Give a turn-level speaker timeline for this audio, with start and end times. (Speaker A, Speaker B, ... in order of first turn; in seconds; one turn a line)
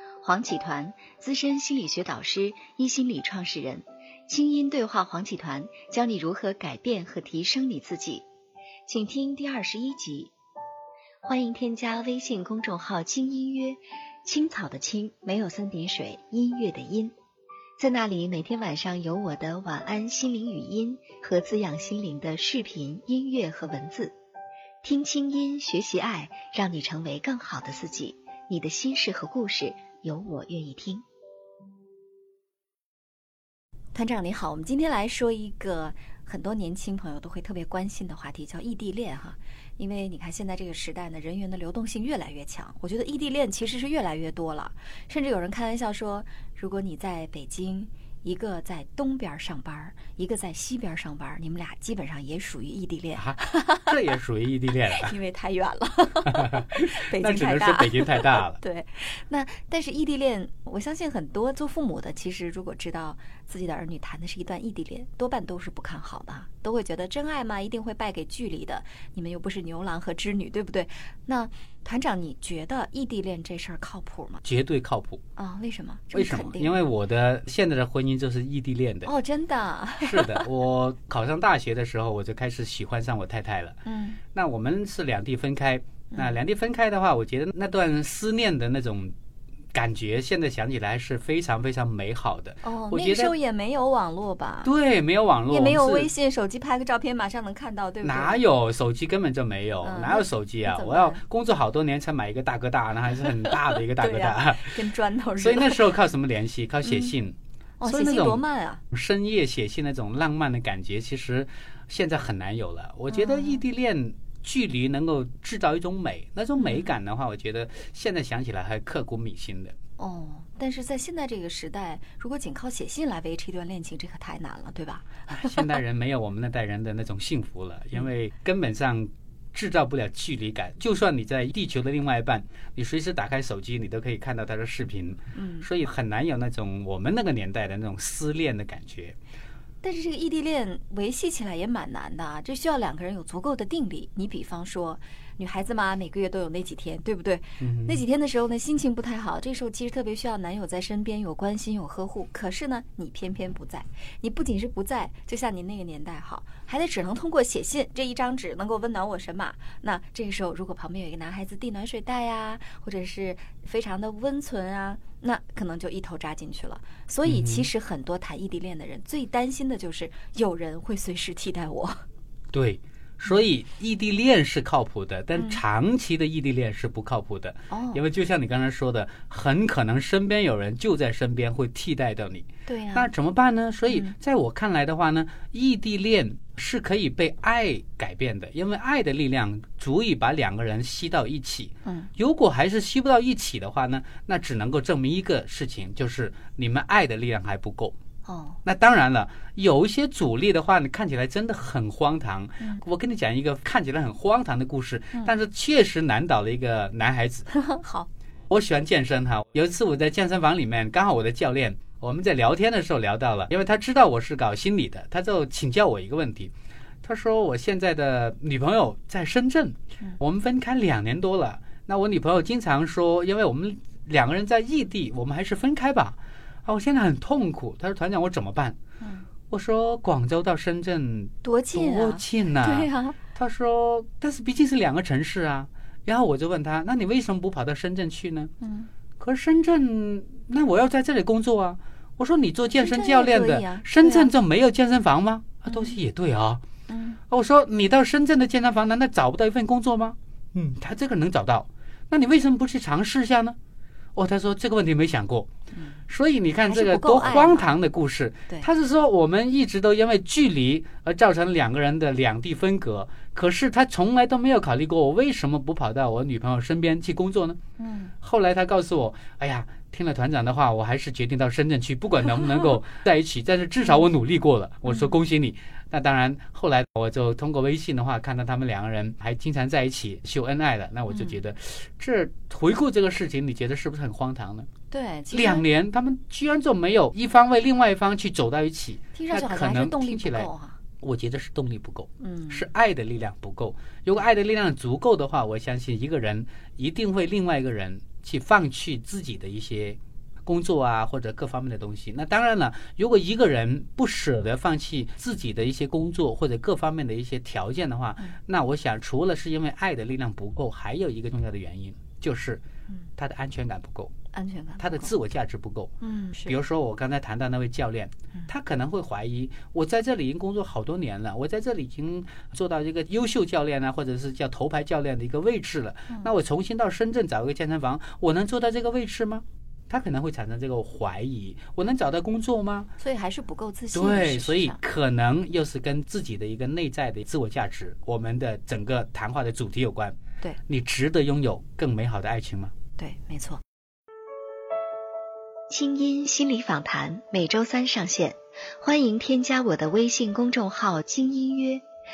Speaker A: 0.2-8.2
Speaker A: 8.8-10.3
Speaker A: 11.2-17.1
Speaker A: 17.8-24.1
Speaker A: 24.8-31.0
Speaker A: 33.9-53.9
Speaker B: 53.1-55.1
Speaker A: 54.9-74.4
Speaker B: 57.2-58.6
Speaker B: 74.4-75.2
Speaker A: 75.3-76.8
Speaker B: 76.1-79.1
Speaker A: 79.0-80.5
Speaker B: 80.0-83.8
Speaker A: 83.8-84.2
Speaker B: 84.3-89.1
Speaker B: 89.7-93.3
Speaker A: 92.6-94.7
Speaker B: 94.6-96.1
Speaker A: 95.5-98.4
Speaker B: 98.0-104.8
Speaker A: 99.8-101.2
Speaker A: 103.5-105.8
Speaker B: 105.4-119.7
Speaker A: 106.8-107.1
Speaker A: 107.8-108.8
Speaker A: 113.1-113.6
Speaker A: 116.6-116.9
Speaker A: 120.0-125.8
Speaker B: 125.3-139.2
Speaker A: 135.3-135.7
Speaker A: 139.8-172.0
Speaker B: 147.6-148.0
Speaker B: 167.2-167.7
Speaker B: 172.5-197.9
Speaker A: 175.3-175.6
Speaker A: 177.7-178.0
Speaker A: 182.7-183.1
Speaker A: 183.9-184.1
Speaker A: 191.8-192.1
Speaker A: 198.2-198.6
Speaker B: 198.6-207.4
Speaker A: 207.5-208.1
Speaker B: 208.5-216.5
Speaker B: 217.0-228.8
Speaker A: 229.0-229.3
Speaker B: 229.5-238.5
Speaker A: 231.4-233.2
Speaker A: 238.6-238.9
Speaker B: 239.2-246.6
Speaker A: 242.7-244.3
Speaker A: 245.7-246.0
Speaker A: 246.9-247.2
Speaker B: 247.3-253.6
Speaker B: 254.2-255.5
Speaker A: 255.7-256.0
Speaker B: 256.1-267.6
Speaker A: 256.7-257.8
Speaker A: 267.8-268.1
Speaker B: 268.2-284.7
Speaker A: 274.9-275.1
Speaker A: 281.1-281.4
Speaker A: 284.9-285.6
Speaker B: 285.3-290.5
Speaker A: 289.1-290.8
Speaker B: 291.0-312.6
Speaker A: 292.2-292.7
Speaker B: 313.2-314.1
Speaker A: 314.3-315.1
Speaker B: 314.8-315.9
Speaker A: 316.0-316.6
Speaker B: 316.4-332.9
Speaker A: 333.0-334.8
Speaker B: 333.9-342.7
Speaker A: 343.0-343.6
Speaker A: 345.7-351.8